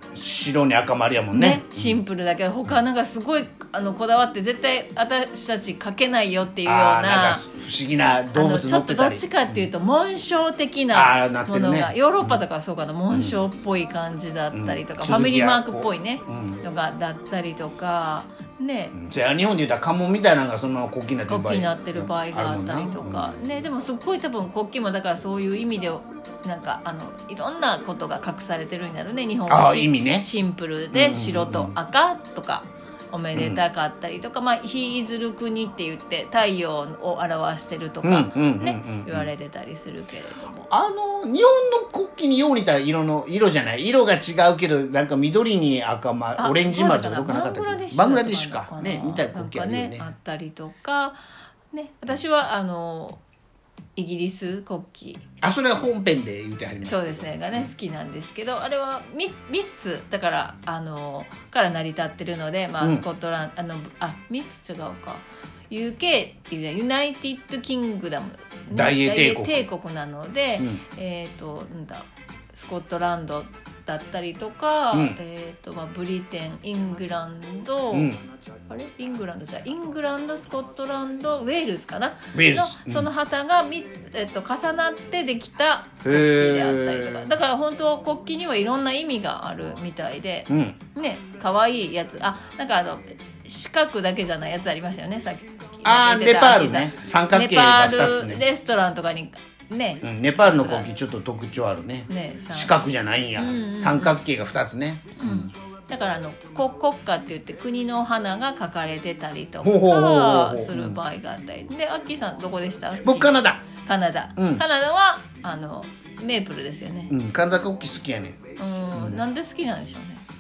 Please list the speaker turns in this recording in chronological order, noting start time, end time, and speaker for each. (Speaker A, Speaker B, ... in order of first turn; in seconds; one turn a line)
Speaker A: 0.1-2.0
Speaker B: 1.3-7.4
Speaker A: 6.7-9.7
Speaker B: 8.3-19.0
Speaker A: 10.9-12.4
Speaker A: 13.1-13.4
Speaker A: 14.5-16.6
Speaker A: 18.9-23.6
Speaker B: 21.3-40.7
Speaker A: 29.5-30.3
Speaker A: 30.9-31.7
Speaker A: 33.4-33.6
Speaker A: 38.0-39.3
Speaker A: 40.7-50.1
Speaker B: 46.4-51.2
Speaker B: 51.7-53.2
Speaker B: 54.0-55.2
Speaker A: 55.4-57.7
Speaker B: 56.8-100.9
Speaker A: 68.7-69.7
Speaker A: 74.9-75.2
Speaker A: 77.9-78.2
Speaker A: 82.3-83.1
Speaker A: 86.0-87.3
Speaker A: 90.5-90.8
Speaker A: 95.8-98.4
Speaker A: 100.0-105.5
Speaker B: 102.1-102.8
Speaker B: 103.4-104.2
Speaker B: 105.2-117.1
Speaker A: 109.6-111.0
Speaker A: 113.0-113.6
Speaker A: 114.4-114.6
Speaker A: 117.1-119.2
Speaker B: 118.6-120.2